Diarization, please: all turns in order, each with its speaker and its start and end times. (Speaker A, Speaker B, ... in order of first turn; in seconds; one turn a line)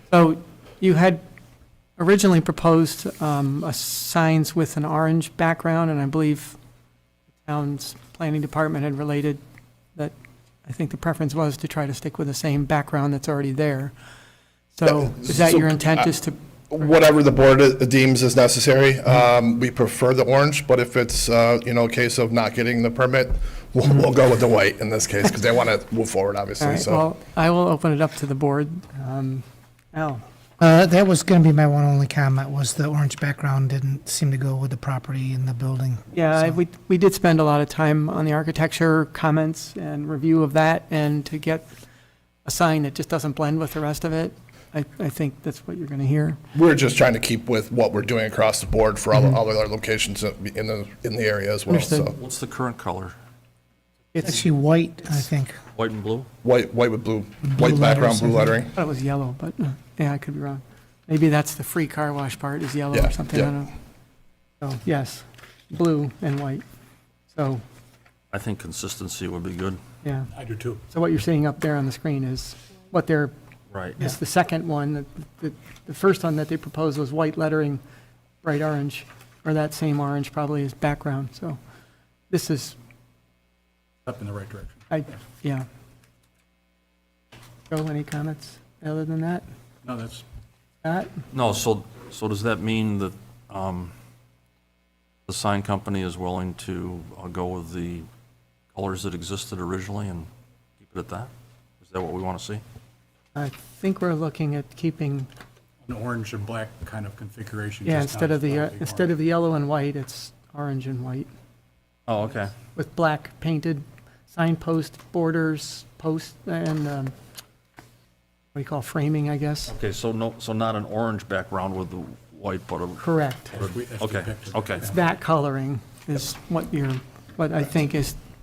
Speaker A: 0.1-1.2
Speaker A: 2.0-6.6
Speaker A: 7.4-9.4
Speaker A: 10.6-13.9
Speaker A: 14.7-16.4
Speaker B: 14.8-16.1
Speaker B: 16.7-27.0
Speaker A: 26.6-30.2
Speaker C: 30.6-36.4
Speaker A: 36.1-41.7
Speaker A: 42.4-46.4
Speaker B: 46.5-52.2
Speaker A: 51.7-52.1
Speaker D: 52.1-53.1
Speaker C: 54.2-55.5
Speaker D: 55.7-56.3
Speaker B: 56.4-58.7
Speaker C: 57.5-58.6
Speaker A: 58.7-63.7
Speaker B: 62.9-63.5
Speaker A: 64.6-66.6
Speaker A: 67.3-67.6
Speaker D: 68.3-69.8
Speaker A: 70.0-70.3
Speaker E: 70.3-70.8
Speaker A: 70.8-73.3
Speaker D: 73.7-74.0
Speaker A: 74.0-77.8
Speaker A: 78.4-81.6
Speaker A: 82.3-82.8
Speaker E: 84.0-84.9
Speaker A: 84.9-85.7
Speaker A: 87.7-89.4
Speaker E: 89.8-90.2
Speaker A: 90.8-91.2
Speaker D: 91.3-93.9
Speaker D: 95.3-98.1
Speaker D: 98.7-100.3
Speaker D: 100.8-101.3
Speaker D: 101.8-102.6
Speaker A: 103.3-105.3
Speaker E: 105.8-109.1
Speaker A: 107.8-111.3
Speaker D: 112.1-112.5
Speaker A: 112.7-117.1
Speaker A: 118.5-119.7
Speaker D: 119.7-124.9
Speaker A: 123.0-123.5
Speaker E: 123.5-125.0
Speaker A: 124.9-128.2